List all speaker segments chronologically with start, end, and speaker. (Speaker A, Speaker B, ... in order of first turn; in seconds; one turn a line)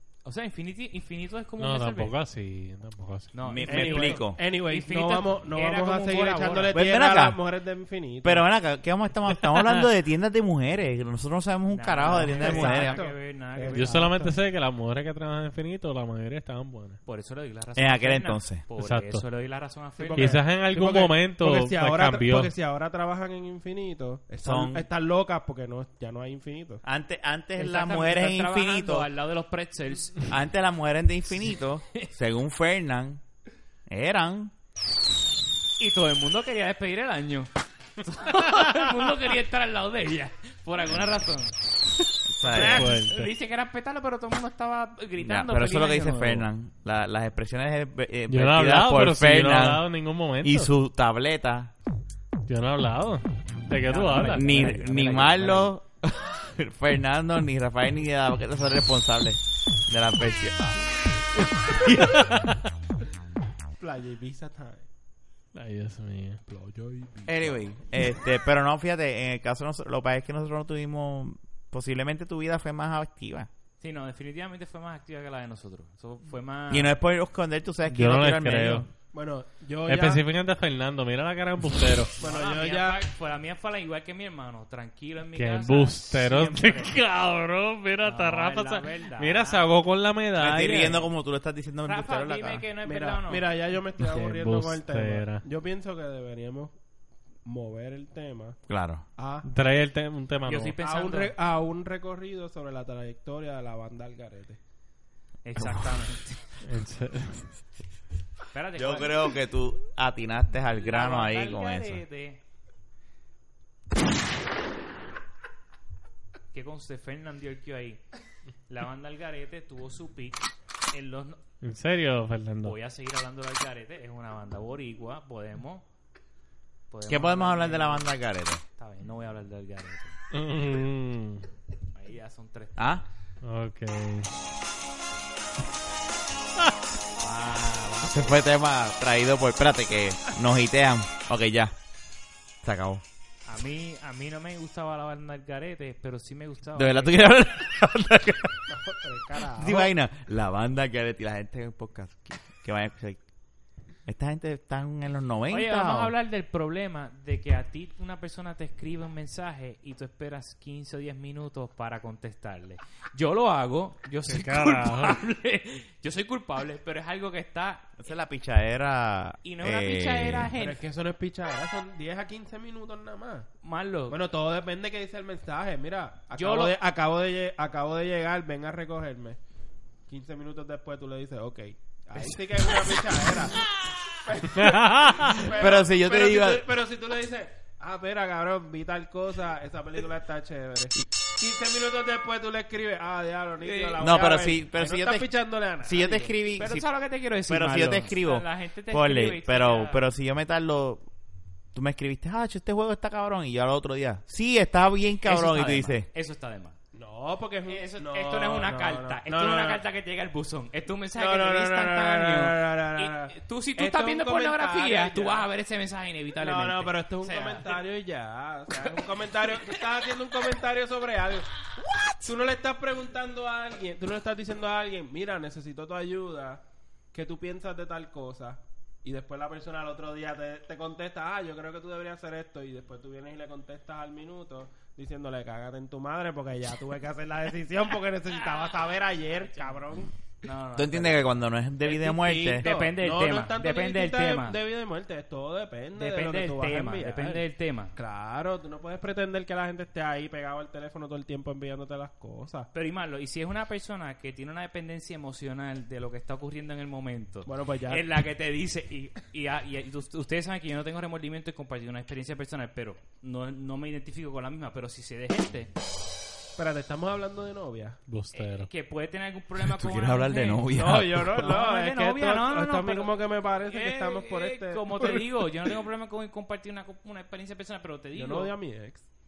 Speaker A: 0.2-2.1
Speaker B: 1.6-3.3
Speaker A: 3.3-6.8
Speaker C: 3.4-4.4
Speaker D: 3.6-8.4
Speaker C: 6.7-7.4
Speaker C: 8.2-13.0
Speaker A: 11.7-14.1
Speaker D: 12.0-14.3
Speaker B: 13.7-17.0
Speaker A: 17.1-20.4
Speaker C: 17.8-18.6
Speaker B: 18.8-19.2
Speaker D: 20.0-26.8
Speaker B: 20.1-22.5
Speaker C: 24.4-24.9
Speaker C: 26.8-29.1
Speaker A: 27.6-30.3
Speaker C: 30.3-33.2
Speaker C: 33.9-34.5
Speaker A: 35.8-41.5
Speaker C: 42.3-42.9
Speaker A: 42.4-46.5
Speaker B: 42.5-43.3
Speaker C: 45.2-49.8
Speaker B: 48.3-50.7
Speaker C: 50.4-51.7
Speaker B: 52.5-54.8
Speaker A: 53.8-55.7
Speaker C: 54.3-62.3
Speaker D: 63.8-64.9
Speaker B: 65.5-66.4
Speaker D: 66.5-67.6
Speaker C: 67.2-73.5
Speaker A: 73.8-76.9
Speaker C: 76.7-78.9
Speaker B: 77.9-78.9
Speaker D: 79.1-80.2
Speaker B: 79.9-82.1
Speaker D: 82.2-83.0
Speaker A: 82.2-86.9
Speaker B: 85.3-91.0
Speaker A: 88.0-89.7
Speaker C: 90.4-92.6
Speaker A: 91.8-93.5
Speaker D: 92.8-96.7
Speaker B: 94.0-95.4
Speaker D: 97.4-98.6
Speaker C: 98.7-99.0
Speaker D: 99.2-99.5
Speaker B: 99.4-100.7
Speaker A: 100.4-101.3
Speaker D: 100.8-104.6
Speaker A: 105.4-106.4
Speaker C: 105.6-105.8
Speaker B: 106.6-107.5
Speaker A: 108.5-109.3
Speaker C: 108.8-112.0
Speaker A: 110.7-112.4
Speaker A: 116.5-118.0
Speaker A: 118.7-121.4
Speaker B: 121.6-122.7
Speaker A: 122.6-125.8
Speaker A: 126.9-128.1
Speaker C: 127.1-128.6
Speaker A: 128.8-130.2
Speaker B: 130.3-131.4
Speaker A: 131.9-132.8
Speaker C: 132.8-133.0
Speaker B: 133.4-134.3
Speaker A: 137.2-138.4
Speaker C: 138.0-141.7
Speaker C: 142.6-143.0
Speaker A: 143.4-147.3
Speaker C: 146.8-148.6
Speaker D: 148.7-149.9
Speaker C: 149.5-153.2
Speaker C: 154.1-156.1
Speaker A: 155.5-167.9
Speaker B: 164.2-165.2
Speaker C: 168.0-170.5
Speaker A: 169.4-170.8
Speaker D: 170.5-173.5
Speaker A: 173.6-174.2
Speaker D: 174.1-179.4
Speaker A: 176.3-176.7
Speaker D: 180.1-196.3
Speaker B: 184.6-185.4
Speaker C: 185.4-186.6
Speaker A: 193.6-194.0
Speaker C: 194.0-195.3
Speaker C: 195.8-196.9
Speaker A: 196.6-200.0
Speaker C: 197.5-201.1
Speaker C: 201.7-206.1
Speaker A: 205.2-206.8
Speaker D: 206.9-209.8
Speaker A: 207.7-217.8
Speaker D: 211.2-215.5
Speaker D: 216.4-221.5
Speaker D: 222.2-240.1
Speaker A: 240.4-241.4
Speaker C: 240.7-242.7
Speaker D: 241.8-247.4
Speaker A: 242.4-244.6
Speaker A: 245.9-247.9
Speaker D: 247.9-252.7
Speaker A: 252.7-265.7
Speaker D: 257.4-258.1
Speaker D: 266.6-268.0
Speaker B: 268.1-268.7
Speaker A: 268.3-270.6
Speaker C: 269.6-271.5
Speaker D: 270.7-275.3
Speaker A: 271.2-278.5
Speaker D: 278.1-279.1